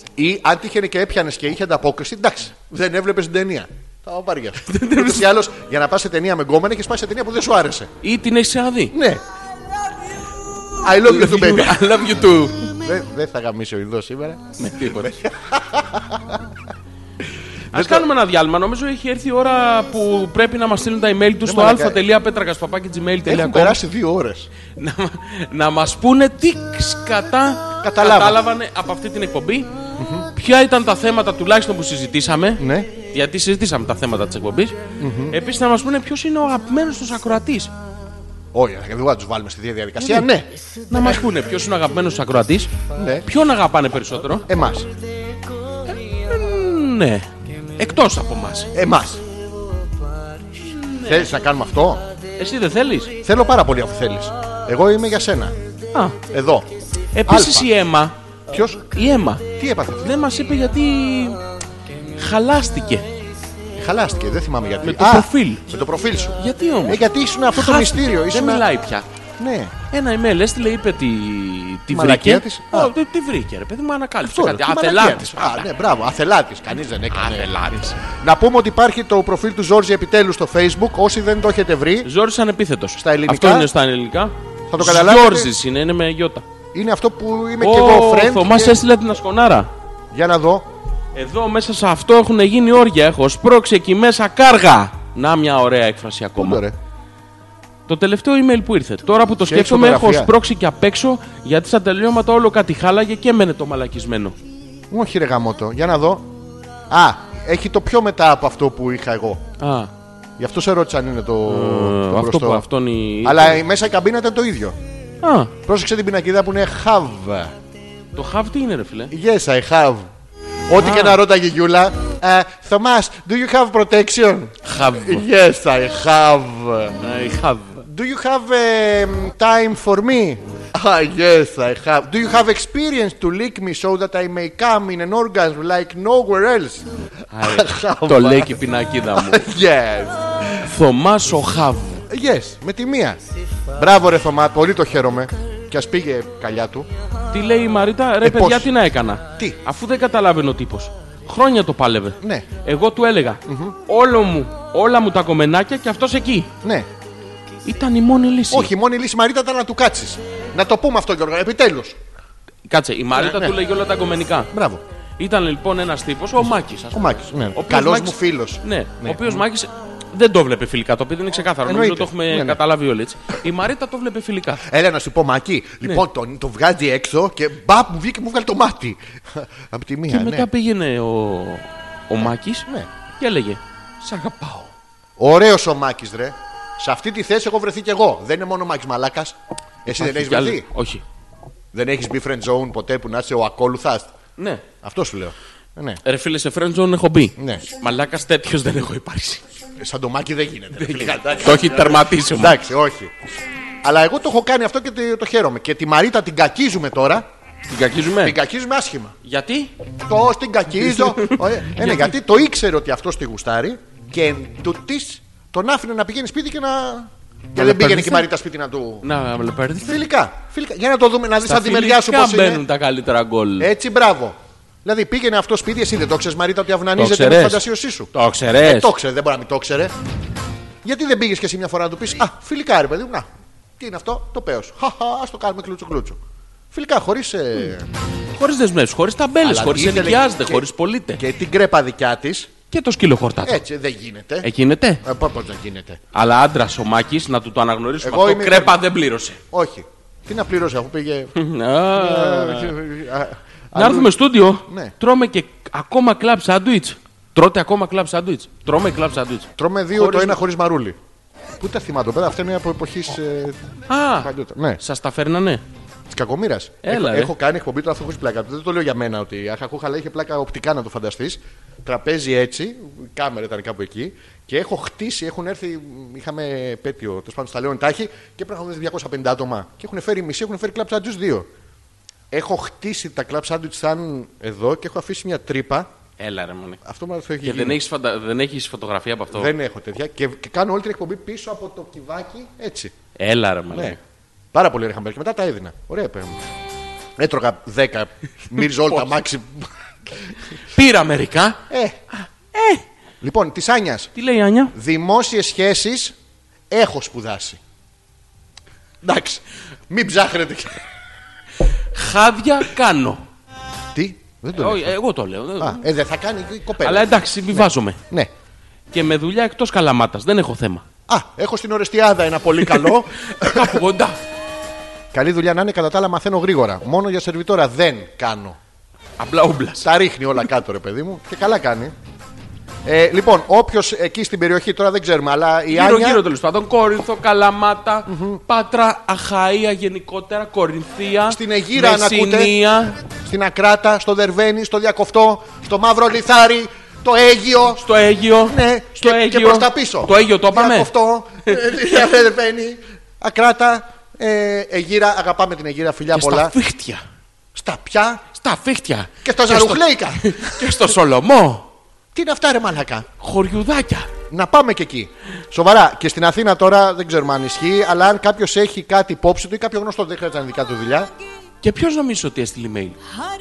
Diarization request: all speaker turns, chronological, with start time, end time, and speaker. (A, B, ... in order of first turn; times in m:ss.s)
0:00.2-0:07.9 A
0:04.7-0:05.3 B
0:08.0-0:08.9 B
0:08.9-0:09.2 A
0:10.8-0:11.8 A
0:11.0-0:12.7 B
0:12.8-0:16.4 A
0:14.6-0:15.2 B
0:17.7-0:23.8 B
0:17.7-0:18.1 A
0:21.4-0:22.0 A
0:23.3-0:24.5 A
0:24.8-0:29.7 B
0:27.8-0:28.4 A
0:30.0-0:30.3 A
0:30.4-0:34.8 B
0:32.6-0:32.9 A
0:35.0-0:35.4 A
0:35.3-0:37.7 B
0:38.5-0:41.2 A
0:40.0-0:40.3 B
0:40.9-0:42.7 B
0:43.0-0:43.3 A
0:43.3-0:44.5 B
0:44.5-0:44.9 A
0:45.9-0:48.7 B
0:48.7-0:49.2 A
0:50.7-0:51.3 B
0:51.0-0:52.0 A
0:52.4-0:53.1 B
0:53.2-0:55.6 A
0:56.3-0:56.7 A
0:57.2-0:58.2 B
0:57.3-0:57.7 A
0:58.5-0:58.8 A
0:58.9-0:59.4 B
0:59.6-1:00.1 A
1:00.0-1:01.4 B
1:02.2-1:03.1 B
1:03.8-1:08.7 A
1:04.8-1:05.6 B
1:06.4-1:07.0 B
1:07.6-1:09.1 B
1:09.4-1:09.7 A
1:09.9-1:15.7 B
1:11.9-1:12.9 A
1:14.2-1:22.1 A
1:17.1-1:18.0 B
1:22.0-1:26.4 B
1:23.0-1:23.7 A
1:24.7-1:25.5 A
1:26.7-1:28.8 A
1:27.6-1:29.7 B
1:30.1-1:30.7 A
1:31.2-1:36.6 B
1:36.4-1:36.8 A
1:37.9-1:44.4 B
1:39.4-1:40.3 A
1:44.9-1:46.3 A
1:46.9-1:49.4 A
1:49.6-1:49.9 B
1:50.4-1:52.6 A
1:51.5-1:53.6 B
1:53.2-1:54.8 A
1:55.2-1:55.5 B
1:55.6-1:57.5 A
1:58.2-1:59.1 B
1:59.1-2:00.1 A
2:00.7-2:07.0 A
2:00.8-2:01.2 B
2:04.6-2:05.2 B
2:07.0-2:07.8 B
2:07.8-2:16.9 A
2:17.3-2:19.4 B
2:17.4-2:18.6 A
2:19.1-2:20.6 A
2:20.6-2:22.0 B
2:22.1-2:23.2 A
2:23.8-2:26.9 A
2:27.3-2:36.5 B
2:28.2-2:28.7 A
2:32.2-2:32.5 A
2:33.5-2:33.8 A
2:36.6-2:36.9 A
2:37.6-2:38.7 B
2:38.5-2:42.0 A
2:42.7-2:44.5 B
2:43.2-2:43.6 A
2:44.5-2:44.8 A
2:45.2-2:47.0 B
2:46.9-2:49.4 A
2:47.6-2:54.6 B
2:51.6-2:52.6 A
2:54.6-3:00.5 A
3:00.1-3:02.7 B
3:03.2-3:04.7 B
3:05.2-3:10.7 A
3:09.9-3:11.0 B
3:11.7-3:14.1 A
3:14.4-3:14.6 B
3:14.8-3:16.0 A
3:16.0-3:19.4 B
3:17.4-3:17.6 A
3:19.8-3:23.1 A
3:20.8-3:22.6 B
3:23.8-3:27.3 A
3:27.7-3:28.4 B
3:28.2-3:29.2 A
3:29.2-3:29.7 B
3:30.1-3:39.0 A
3:30.8-3:32.1 B
3:37.6-3:38.3 B
3:39.0-3:40.0 B
3:39.8-3:42.6 A
3:41.4-3:43.7 B
3:43.6-3:49.9 A
3:47.0-3:48.9 B
3:50.8-3:53.3 A
3:53.8-3:56.2 A
3:56.7-3:57.9 A
3:58.4-4:01.2 B
3:59.4-4:00.6 A
4:01.2-4:02.5 A
4:02.7-4:03.6 B
4:03.4-4:04.5 A
4:04.4-4:05.0 B
4:05.0-4:06.0 A
4:06.1-4:09.4 B
4:08.0-4:08.8 A
4:09.5-4:11.3 A
4:11.4-4:12.8 B
4:11.9-4:14.9 A
4:13.8-4:20.4 B
4:19.6-4:21.0 A
4:21.6-4:23.6 A
4:23.9-4:25.6 B
4:24.2-4:24.8 A
4:26.1-4:41.5 A
4:26.8-4:27.3 B
4:42.3-4:45.9 A
4:46.2-4:46.8 B
4:46.8-4:47.8 A
4:47.4-4:49.5 B
4:49.3-4:52.9 A
4:53.2-4:54.0 B
4:53.7-4:54.0 A
4:54.5-4:56.4 A
4:57.2-5:00.3 A
5:00.7-5:01.6 B
5:01.7-5:02.0 A
5:02.5-5:02.8 B
5:03.2-5:04.1 A
5:04.2-5:04.7 B
5:04.7-5:06.2 A
5:06.7-5:07.6 A
5:09.0-5:10.8 A
5:11.9-5:13.2 B
5:13.9-5:14.9 A
5:14.5-5:15.8 B
5:15.6-5:18.3 A
5:16.8-5:18.0 B
5:18.9-5:20.9 B
5:21.1-5:23.8 A
5:22.7-5:24.2 B
5:25.1-5:28.6 A
5:29.2-5:29.9 B
5:29.8-5:31.9 A
5:32.8-5:36.2 A
5:35.7-5:43.0 B
5:38.1-5:38.4 A
5:41.3-5:42.6 A
5:43.1-5:47.8 A
5:47.8-5:50.9 B
5:48.4-5:56.6 A
5:56.1-5:57.0 B
5:57.6-5:58.2 A
5:58.4-6:01.7 B
5:59.2-6:00.7 A
6:02.1-6:03.1 A
6:03.2-6:04.1 B
6:04.3-6:11.1 A
6:11.6-6:13.0 B